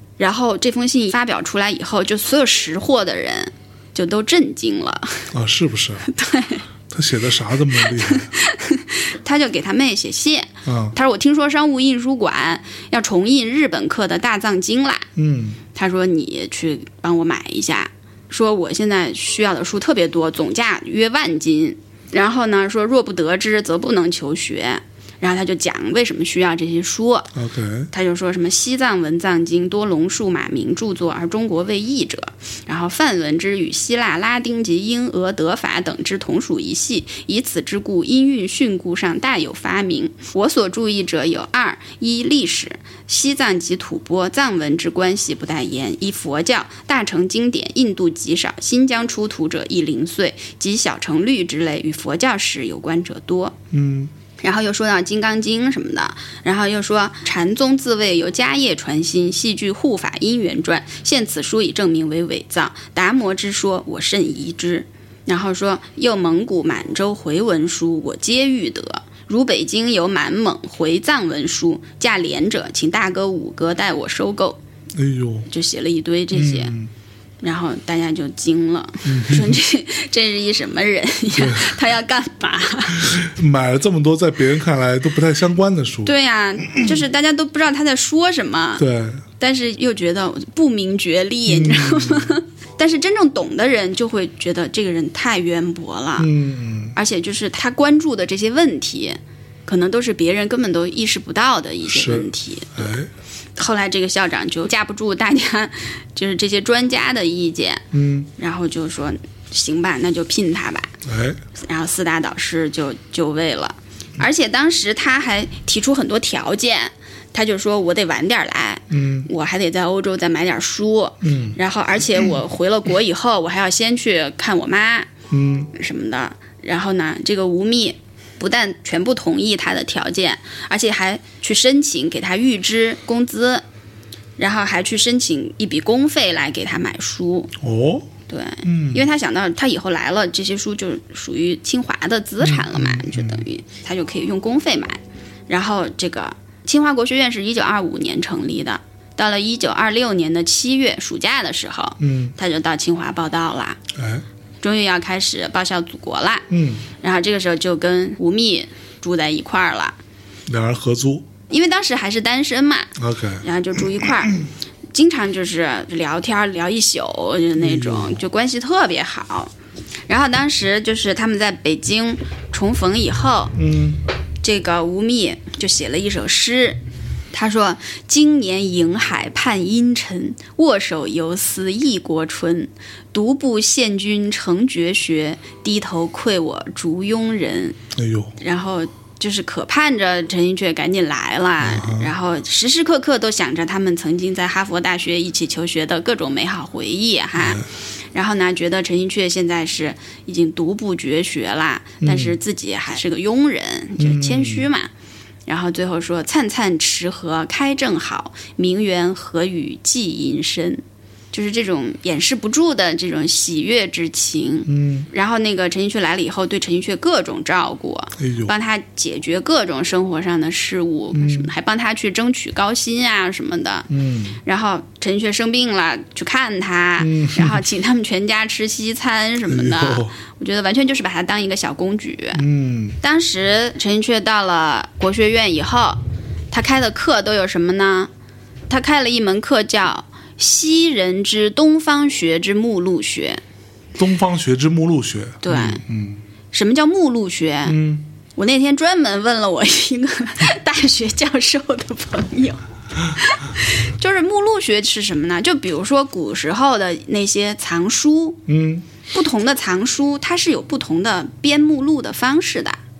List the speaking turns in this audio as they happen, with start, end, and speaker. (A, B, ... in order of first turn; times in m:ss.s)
0:00.2-0:05.3 A
0:05.3-0:06.1 B
0:06.0-0:06.6 A
0:06.9-0:08.3 B
0:07.8-0:15.1 A
0:10.6-0:10.9 B
0:15.2-0:15.6 B
0:15.7-0:27.3 A
0:27.3-0:27.9 B
0:27.9-0:53.6 A
0:53.7-0:54.1 B
0:54.4-1:14.6 A
1:14.9-1:15.5 B
1:15.5-1:16.7 A
1:16.3-1:16.9 B
1:17.4-1:23.1 A
1:19.0-1:19.6 B
1:21.3-1:21.8 B
1:23.0-1:26.1 B
1:26.0-1:28.8 A
1:26.7-1:27.0 B
1:28.8-1:29.2 B
1:29.4-1:36.3 A
1:31.5-1:32.4 B
1:36.2-1:36.9 B
1:36.9-1:42.9 A
1:41.8-1:43.1 B
1:43.6-1:50.9 A
1:47.9-1:48.3 B
1:51.0-1:51.4 B
1:51.6-2:05.1 A
1:58.9-1:59.3 B
2:01.2-2:01.6 B
2:05.3-2:05.7 B
2:05.7-2:13.6 A
2:14.4-2:17.5 A
2:17.6-2:18.1 B
2:18.3-2:33.8 A
2:18.6-2:19.1 B
2:22.4-2:23.4 B
2:32.0-2:32.3 B
2:33.9-2:34.2 B
2:34.6-2:36.5 A
2:36.5-2:36.9 B
2:37.0-2:40.0 A
2:40.5-2:41.2 B
2:41.5-2:44.4 A
2:43.0-2:44.3 B
2:44.9-2:49.5 A
2:47.6-2:48.2 B
2:50.1-2:53.6 A
2:53.5-2:54.0 B
2:54.4-2:56.8 A
2:57.3-3:07.8 A
3:07.9-3:08.3 B
3:08.4-3:24.9 A
3:11.6-3:12.1 B
3:17.4-3:17.7 B
3:22.0-3:22.4 B
3:24.0-3:24.7 B
3:25.5-3:43.9 A
3:34.7-3:35.1 B
3:38.2-3:38.5 B
3:41.1-3:41.5 B
3:43.9-3:44.4 B
3:44.4-3:52.4 A
3:47.0-3:47.6 B
3:49.4-3:50.1 B
3:52.4-3:53.0 B
3:53.0-3:58.1 A
3:58.7-4:03.4 A
4:04.0-4:06.2 B
4:05.4-4:05.8 A
4:06.5-4:07.8 A
4:07.6-4:08.0 B
4:08.3-4:18.4 A
4:18.5-4:18.8 B
4:19.1-4:22.8 A